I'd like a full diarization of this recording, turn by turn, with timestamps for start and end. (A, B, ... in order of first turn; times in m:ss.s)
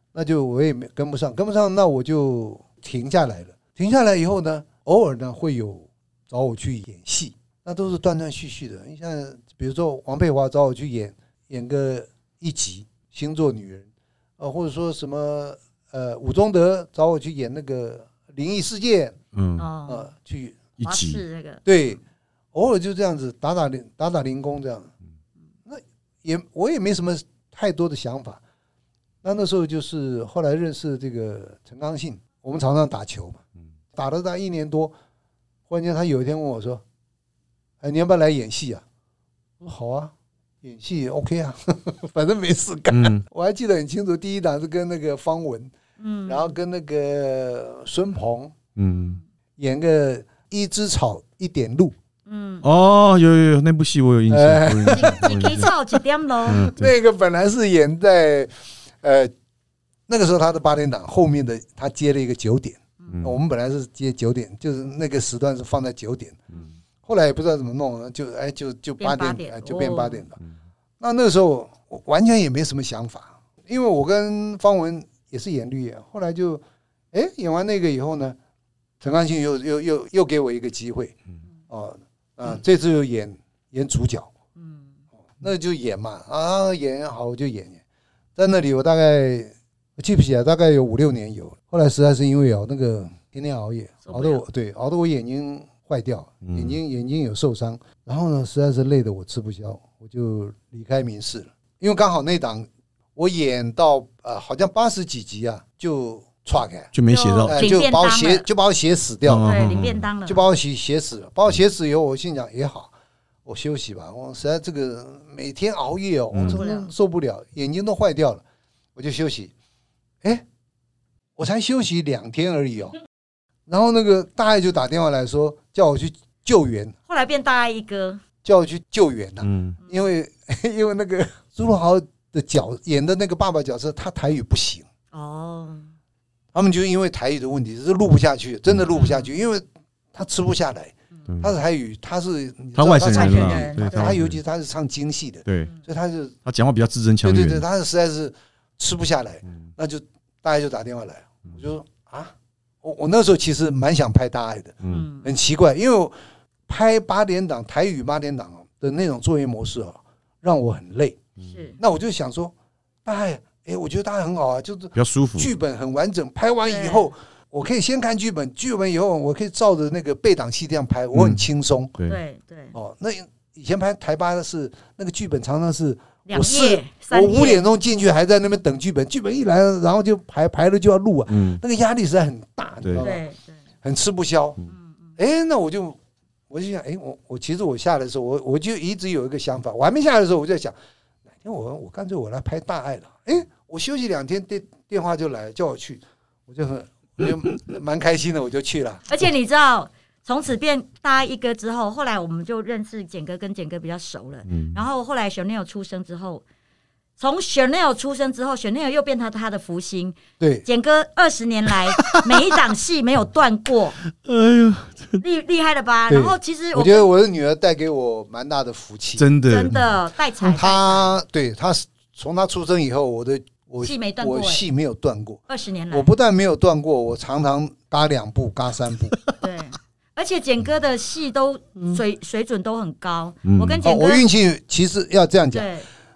0:00.1-0:19.2 A
0:19.3-0:19.7 B
0:19.6-0:20.1 C
0:19.9-0:20.7 A
0:20.8-0:21.2 B
0:20.8-0:21.6 C
0:21.6-0:22.0 A
0:22.5-0:24.9 A
0:25.7-0:28.4 A
0:29.2-0:33.4 A
0:33.9-0:34.9 A
0:35.7-0:36.8 A
0:37.8-0:38.8 A
0:39.6-0:45.7 A
0:42.9-0:43.2 B
0:46.0-0:46.5 C
0:46.3-0:48.6 A
0:48.8-0:49.2 B
0:48.9-0:49.2 C
0:49.6-0:52.0 A
0:52.3-0:52.6 C
0:52.6-0:55.7 B
0:54.3-0:55.5 A
0:54.9-0:56.7 C
0:56.5-0:56.9 B
0:56.6-0:59.3 A
1:00.1-1:06.4 A
1:07.0-1:10.4 A
1:09.0-1:10.2 C
1:11.0-1:18.4 A
1:19.0-1:21.1 A
1:21.7-1:24.3 A
1:24.6-1:24.9 C
1:25.4-1:27.8 A
1:28.4-1:46.9 A
1:34.0-1:34.4 C
1:36.4-1:36.8 B
1:46.9-1:47.6 B
1:47.1-1:48.5 C
1:47.4-1:49.6 A
1:49.3-1:50.1 B
1:49.4-1:50.4 C
1:50.2-1:52.9 A
1:53.4-1:58.4 A
1:56.3-1:56.6 B
1:56.5-1:56.9 C
1:59.0-1:59.5 A
2:01.4-2:03.0 A
2:03.7-2:07.0 A
2:07.1-2:08.2 C
2:08.4-2:14.8 A
2:09.4-2:09.8 B
2:15.1-2:15.9 C
2:16.5-2:26.4 A
2:18.9-2:19.3 C
2:21.3-2:21.5 B
2:22.8-2:24.4 B
2:23.0-2:24.1 C
2:26.4-2:27.6 B
2:27.2-2:36.1 A
2:34.8-2:35.1 B
2:34.9-2:35.3 C
2:36.7-2:41.2 A
2:41.5-2:41.8 C
2:41.8-2:42.5 A
2:43.0-2:52.0 A
2:45.0-2:45.5 B
2:46.6-2:47.1 C
2:51.1-2:51.4 B
2:52.1-2:52.8 C
2:52.7-3:03.2 A
2:56.3-2:57.6 C
3:01.3-3:01.6 B
3:03.0-3:03.6 C
3:03.8-3:04.6 A
3:04.7-3:05.1 C
3:05.2-3:06.0 A
3:06.5-3:10.7 A
3:11.3-3:19.1 A
3:19.1-3:26.4 C
3:24.5-3:24.8 B
3:27.2-3:34.0 C
3:30.4-3:30.6 A
3:32.0-3:32.3 B
3:34.2-3:35.2 B
3:35.2-3:37.1 C
3:36.1-3:39.3 A
3:39.2-3:39.8 B
3:39.5-3:41.1 C
3:40.4-3:49.2 A
3:43.8-3:44.6 C
3:45.5-3:46.1 C
3:49.4-3:54.2 C
3:53.4-3:53.8 B
3:53.8-3:55.7 A
3:55.5-3:55.9 C